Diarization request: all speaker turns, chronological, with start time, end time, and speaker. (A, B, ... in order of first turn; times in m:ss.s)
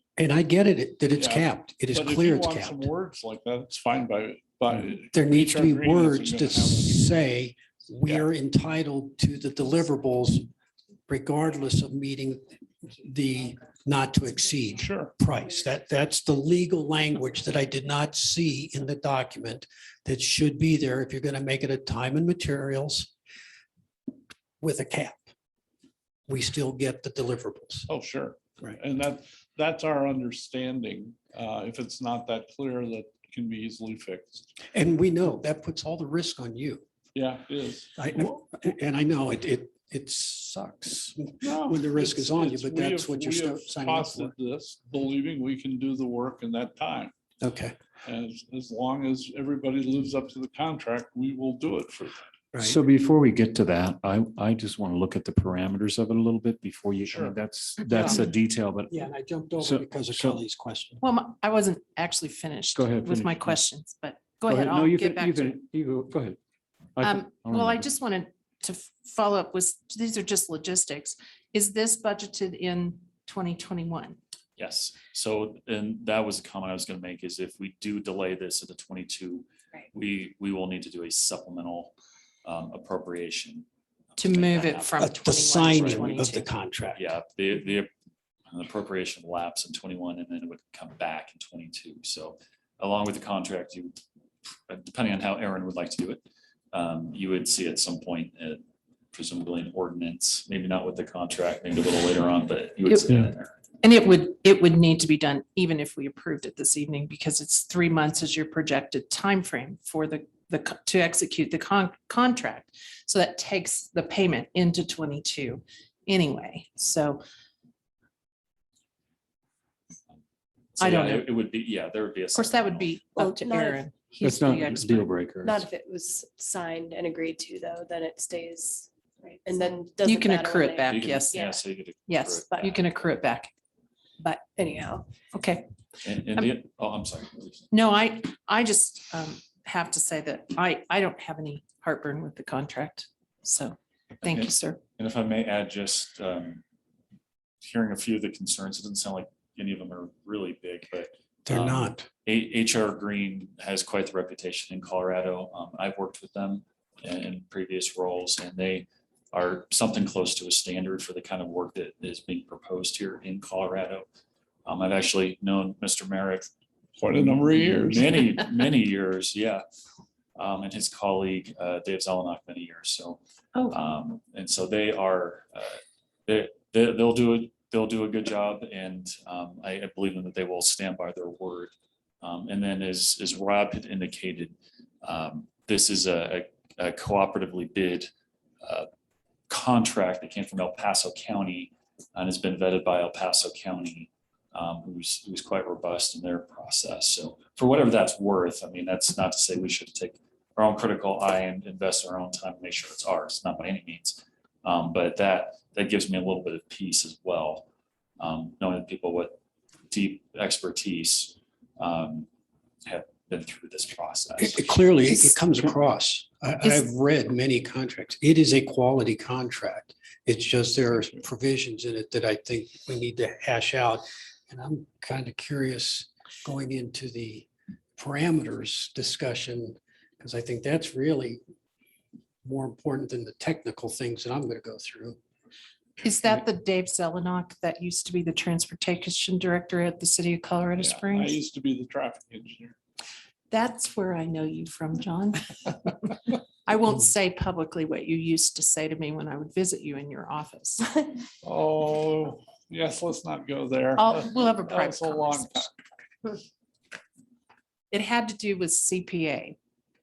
0:00.2-0:02.9 A
0:01.2-0:07.0 B
0:05.1-0:10.5 A
0:11.1-0:23.1 A
0:14.8-0:15.1 B
0:24.6-0:25.3 A
0:26.3-0:27.9 A
0:27.9-0:34.5 B
0:34.7-0:36.8 A
0:37.2-0:38.0 B
0:38.0-0:44.4 A
0:41.4-0:47.1 B
0:47.4-0:47.8 A
0:48.0-0:52.3 B
0:52.5-0:52.8 A
0:52.6-0:59.0 C
0:57.1-0:57.4 B
0:58.9-1:01.0 A
0:59.6-1:00.4 C
1:01.0-1:05.6 D
1:02.8-1:03.6 C
1:04.5-1:06.4 C
1:07.0-1:07.9 C
1:07.0-1:14.2 D
1:14.6-1:25.2 E
1:24.2-1:26.5 D
1:25.0-1:27.1 A
1:27.0-1:27.9 E
1:28.5-1:34.0 E
1:34.7-1:43.6 E
1:43.8-1:57.2 D
2:00.8-2:03.1 E
2:00.8-2:01.3 D
2:02.4-2:05.0 D
2:03.1-2:03.8 F
2:04.2-2:05.7 C
2:04.5-2:04.8 F
2:05.4-2:11.6 F
2:10.1-2:11.3 D
2:10.8-2:13.2 E
2:12.1-2:13.5 D
2:14.2-2:14.5 D
2:14.6-2:15.2 F
2:15.3-2:15.7 D
2:16.0-2:17.7 E
2:17.7-2:24.8 D
2:24.2-2:26.6 E
2:27.6-2:44.0 E
2:31.5-2:32.1 A
2:44.7-2:46.5 E
2:47.0-2:48.1 B
2:47.2-2:49.6 E
2:50.4-2:53.2 E
2:53.7-3:08.1 E
3:09.5-3:27.7 E
3:28.2-3:29.4 E
3:29.9-3:32.3 E
3:32.9-3:34.8 E
3:34.4-3:51.4 A
3:52.4-3:55.2 A
3:56.0-4:01.4 D
4:00.8-4:02.8 B
4:03.5-4:06.0 D
4:06.7-4:11.2 D
4:11.4-4:15.7 B
4:14.0-4:15.6 D
4:17.9-4:19.6 D